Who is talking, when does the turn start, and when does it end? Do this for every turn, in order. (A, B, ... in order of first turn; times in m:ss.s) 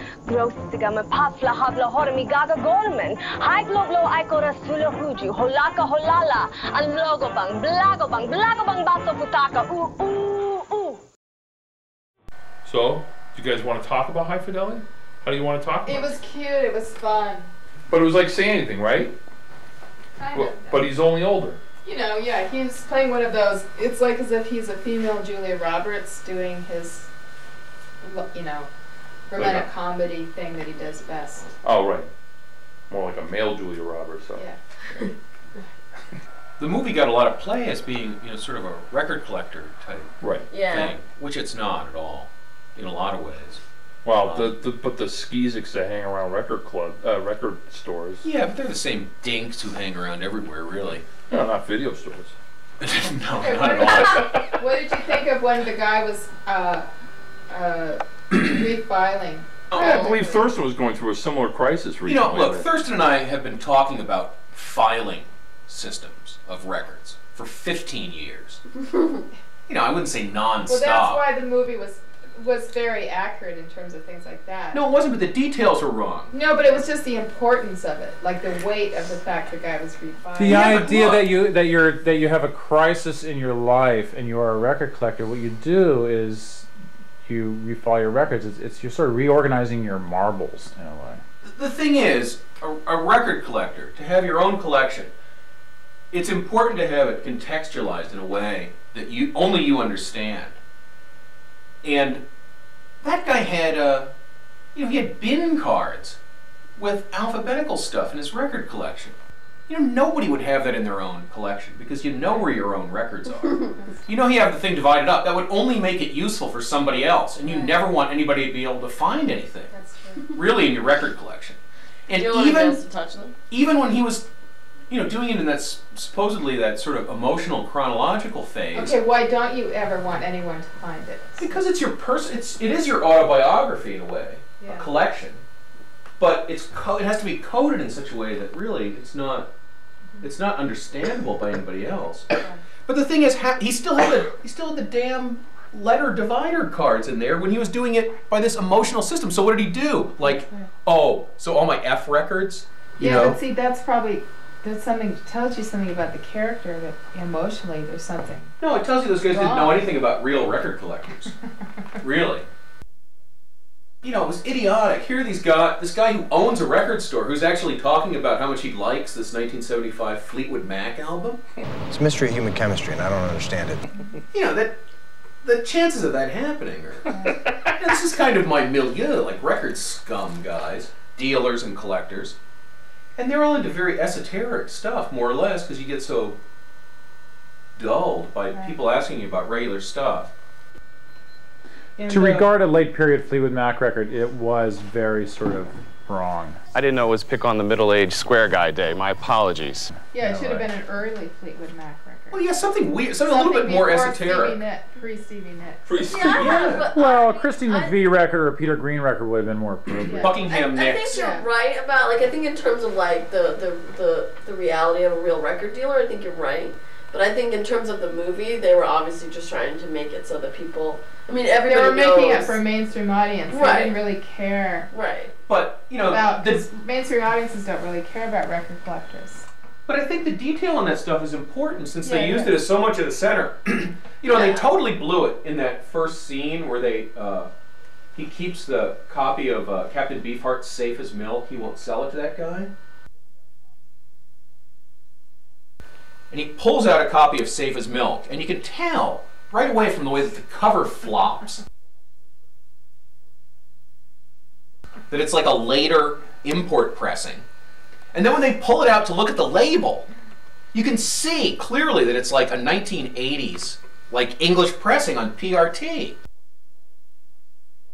0:00.3-0:11.0 A
0:12.6-0:16.1 B
0:15.8-0:17.5 C
0:17.9-0:19.2 B
0:20.2-0:20.8 C
0:20.3-0:21.6 B
0:21.8-0:27.1 C
0:28.0-0:28.7 C
0:29.3-0:31.5 C
0:29.4-0:29.7 B
0:31.6-0:32.1 B
0:32.9-0:34.4 B
0:36.6-0:40.1 D
0:40.5-0:41.0 E
0:40.6-0:43.6 D
0:44.0-0:48.2 B
0:44.2-0:44.6 D
0:48.2-0:51.0 D
0:51.3-0:52.4 B
0:52.8-0:54.3 D
0:53.4-0:56.9 C
0:54.1-0:54.5 B
0:57.5-1:00.5 C
0:59.7-1:00.1 D
0:59.7-1:02.7 B
1:02.0-1:08.6 D
1:08.9-1:09.2 E
1:09.7-1:11.2 D
1:10.7-1:14.8 C
1:14.7-1:16.3 D
1:16.3-1:20.7 C
1:20.4-1:26.7 F
1:20.5-1:21.3 D
1:27.2-1:31.2 F
1:31.4-1:35.1 D
1:36.1-1:40.6 D
1:41.8-1:42.2 D
1:43.0-1:44.1 D
1:44.8-1:46.2 D
1:46.8-1:49.2 D
1:49.7-1:59.7 D
1:57.4-1:57.8 C
1:59.7-2:00.4 C
2:00.3-2:02.8 D
2:02.1-2:03.4 E
2:03.5-2:04.3 D
2:04.9-2:09.0 D
2:08.7-2:11.6 C
2:11.4-2:15.4 D
2:14.6-2:14.9 C
2:16.2-2:19.5 D
2:20.2-2:22.3 D
2:22.8-2:33.4 D
2:30.2-2:30.7 C
2:33.0-2:38.5 C
2:38.6-2:41.4 D
2:39.2-2:39.9 C
2:42.0-2:42.5 D
2:44.0-2:51.4 D
2:51.9-2:53.9 G
2:54.3-2:54.8 D
2:55.4-3:02.4 D
2:57.1-2:57.5 C
3:03.2-3:06.4 D
3:07.8-3:10.3 D
3:12.0-3:12.4 C
3:12.1-3:16.6 F
3:16.9-3:19.8 H
3:20.1-3:22.4 C
3:20.1-3:20.7 F
3:22.3-3:24.6 D
3:23.2-3:26.2 C
3:25.9-3:26.7 B
3:26.0-3:28.0 E
3:26.2-3:30.3 F
3:26.3-3:27.0 D
3:30.1-3:30.4 C
3:30.2-3:31.3 D
3:30.4-3:42.6 E
3:31.1-3:31.4 C
3:41.7-3:44.9 C
3:43.5-3:44.0 E
3:44.9-3:45.3 E
3:45.5-3:46.6 D
3:46.0-3:49.5 C
3:49.9-3:57.5 D
3:52.0-3:52.5 C
3:54.3-3:54.8 E
3:58.2-4:02.7 D
4:06.3-4:11.6 D
4:15.1-4:17.4 D
4:18.1-4:20.1 D
4:20.7-4:26.2 D